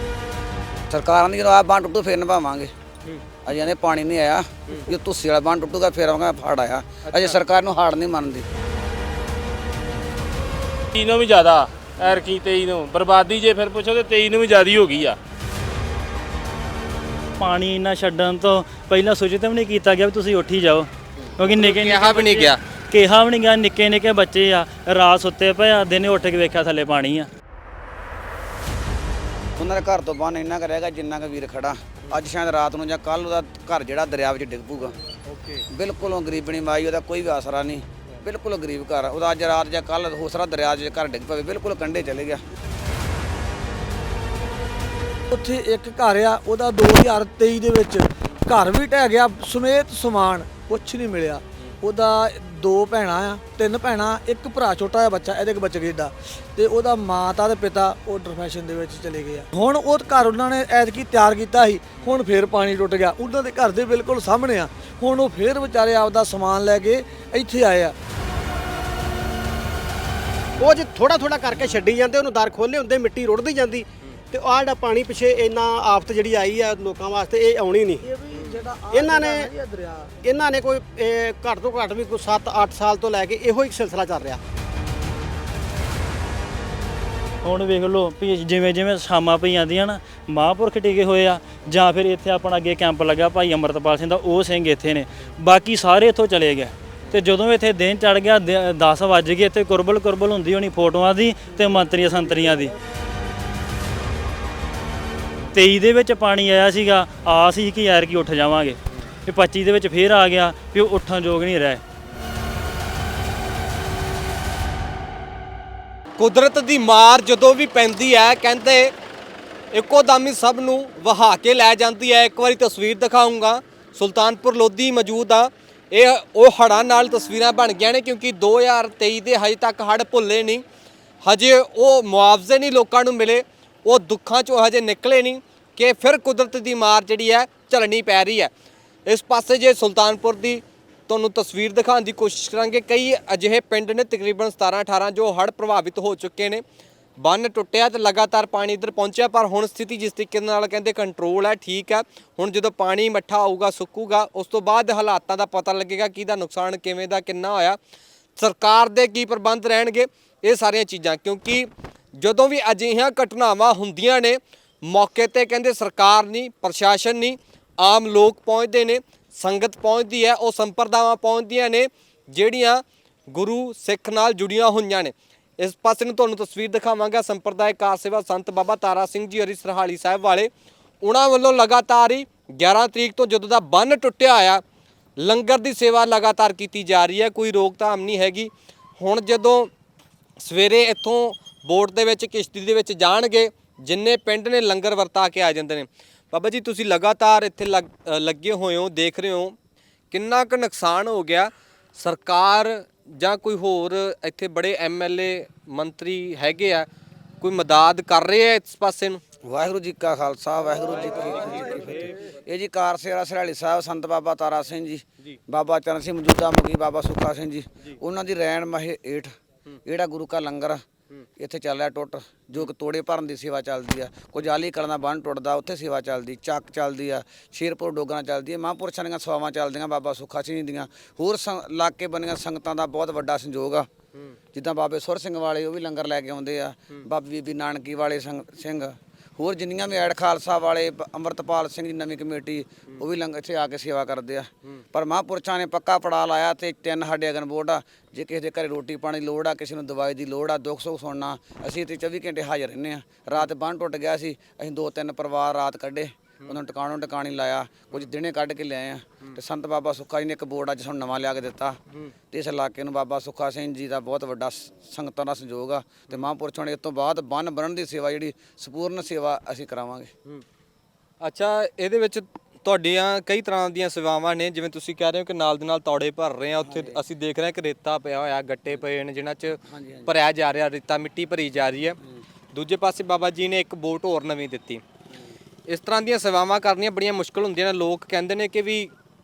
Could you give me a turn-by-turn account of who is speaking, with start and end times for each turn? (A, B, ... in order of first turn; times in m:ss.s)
0:00.9-0:02.7 A
0:03.4-0:08.5 A
0:07.1-0:07.4 B
0:10.9-0:15.2 C
0:17.4-0:27.3 D
0:21.5-0:22.6 B
0:29.6-0:35.0 A
0:35.3-0:35.6 B
0:35.7-0:42.4 A
0:45.3-1:08.0 E
1:10.6-1:18.0 F
1:18.0-1:20.2 E
1:18.9-1:19.5 F
1:20.2-1:24.4 F
1:27.4-1:42.7 D
1:45.5-1:51.8 D
1:56.2-1:58.9 B
1:59.7-2:10.6 B
2:11.2-2:18.5 B
2:19.1-2:26.6 B
2:27.2-2:37.8 B
2:38.4-3:00.5 B
3:01.0-3:04.6 B
3:05.2-3:09.7 B
3:10.4-3:19.6 B
3:20.1-3:26.9 B
3:27.4-3:29.2 B
3:29.4-3:39.3 A
3:31.1-3:32.1 B
3:31.4-3:32.1 E
3:39.8-3:40.8 A
3:41.4-3:53.9 A
3:54.5-4:21.8 A
4:22.3-4:30.1 A
4:31.2-4:42.0 B
4:36.6-4:37.0 A
4:39.6-4:40.1 A
4:42.5-4:44.8 B
4:45.7-4:48.9 B